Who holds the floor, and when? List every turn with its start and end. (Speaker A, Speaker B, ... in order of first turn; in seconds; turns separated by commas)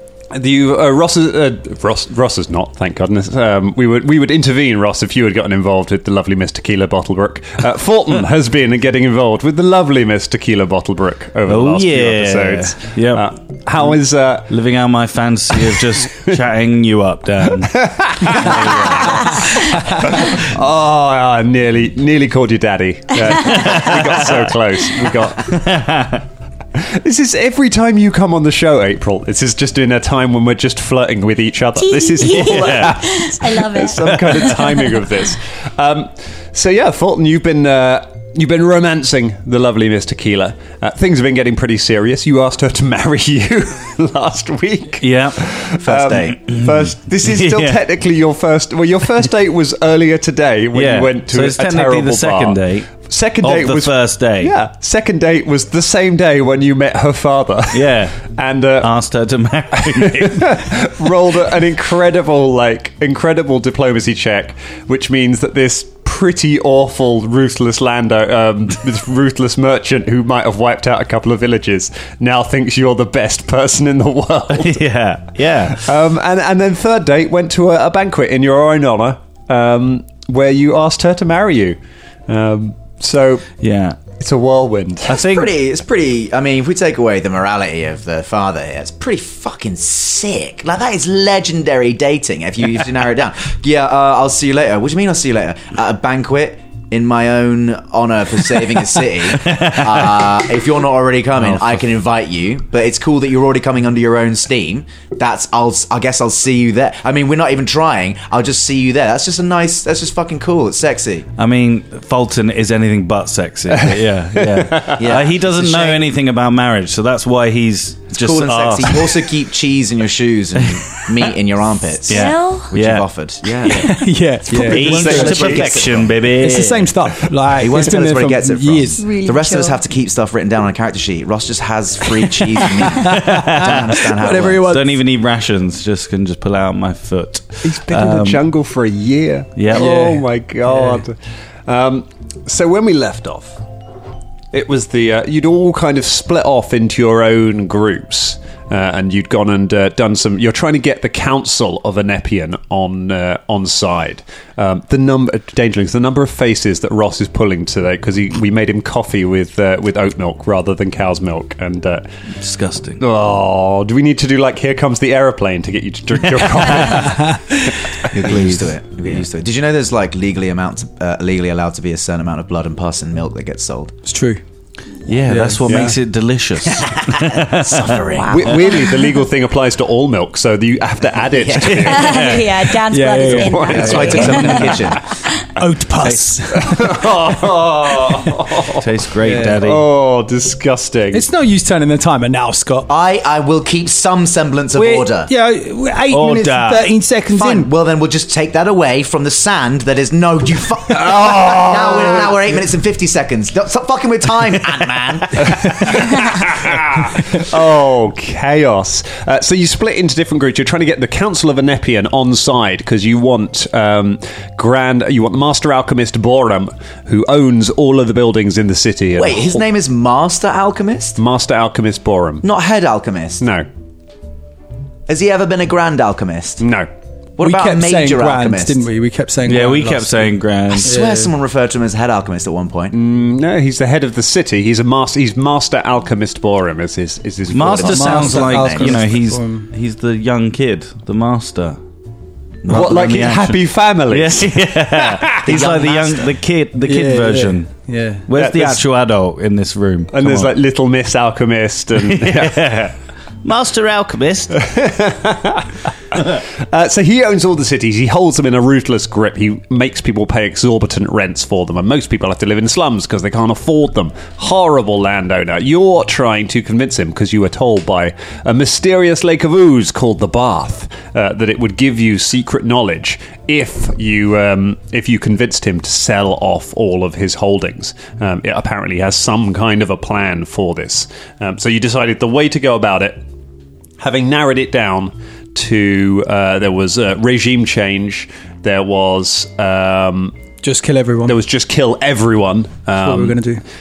Speaker A: 0.3-14.5, Speaker B: 11.5-13.3, Speaker B: 14.5-19.4, Speaker A: 15.6-16.4, Speaker A: 17.5-25.8, Speaker B: 23.4-24.4, Speaker B: 25.1-26.2, Speaker A: 26.8-58.9, Speaker C: 31.9-35.0, Speaker B: 32.2-33.0, Speaker B: 34.0-35.0, Speaker B: 45.0-45.4, Speaker D: 45.8-46.4, Speaker B: 46.5-47.8, Speaker B: 50.7-54.5, Speaker B: 57.7-58.2, Speaker B: 58.8-60.6, Speaker A: 59.8-74.9, Speaker B: 74.5-75.9, Speaker A: 75.7-81.8, Speaker A: 82.3-83.5, Speaker B: 83.6-84.0, Speaker A: 84.1-85.2, Speaker B: 85.1-85.5, Speaker D: 85.1-111.3, Speaker B: 99.4-100.3, Speaker B: 111.4-119.3, Speaker A: 113.8-115.0, Speaker D: 115.0-116.1, Speaker D: 118.2-124.0, Speaker B: 120.6-121.0, Speaker B: 122.1-123.1, Speaker C: 122.1-122.7, Speaker B: 123.6-123.9, Speaker E: 123.8-125.8, Speaker D: 124.5-126.2, Speaker A: 124.5-125.8, Speaker B: 124.7-127.0, Speaker E: 126.4-129.0, Speaker D: 127.5-134.7, Speaker C: 129.0-129.8, Speaker E: 132.9-134.9, Speaker B: 133.1-134.0, Speaker B: 134.6-138.4, Speaker A: 137.6-143.6, Speaker B: 139.6-140.0, Speaker E: 139.7-141.1, Speaker A: 144.5-162.1, Speaker B: 162.4-163.0, Speaker A: 163.0-167.4, Speaker B: 166.8-167.1, Speaker E: 167.1-167.4, Speaker D: 168.1-174.0, Speaker B: 168.3-168.7, Speaker E: 174.1-174.4, Speaker B: 175.1-178.0, Speaker E: 175.2-176.0, Speaker A: 175.7-175.9, Speaker D: 176.7-178.8, Speaker A: 178.3-182.3, Speaker D: 181.3-182.1, Speaker B: 181.8-182.5, Speaker C: 181.9-185.0, Speaker E: 182.9-184.8, Speaker A: 183.2-184.4, Speaker D: 183.7-185.0, Speaker E: 185.6-186.9, Speaker B: 186.0-186.3, Speaker A: 186.5-188.9, Speaker B: 188.7-189.8, Speaker E: 189.2-189.6, Speaker A: 189.4-191.2, Speaker E: 191.1-192.9, Speaker D: 192.9-195.3, Speaker E: 194.8-197.7, Speaker B: 196.1-196.9, Speaker D: 197.3-206.0, Speaker A: 200.9-202.3, Speaker A: 205.4-219.7, Speaker D: 219.2-221.2, Speaker A: 221.2-222.4, Speaker D: 222.4-223.4, Speaker A: 223.4-223.7, Speaker D: 225.1-226.6, Speaker A: 226.6-226.9, Speaker D: 227.4-228.8, Speaker E: 227.4-231.3, Speaker B: 229.4-230.9, Speaker D: 230.8-232.9, Speaker A: 232.9-238.4, Speaker B: 237.5-241.8, Speaker D: 237.6-239.0, Speaker E: 237.8-239.7, Speaker D: 242.6-243.3, Speaker B: 242.7-247.7, Speaker A: 242.7-245.2, Speaker D: 245.4-246.3, Speaker E: 246.8-248.7, Speaker B: 248.3-250.6, Speaker A: 248.3-248.8, Speaker A: 250.1-252.6, Speaker B: 252.0-254.6, Speaker A: 254.6-283.2, Speaker A: 284.0-290.4, Speaker E: 290.6-291.4, Speaker A: 291.2-293.4, Speaker E: 293.0-293.6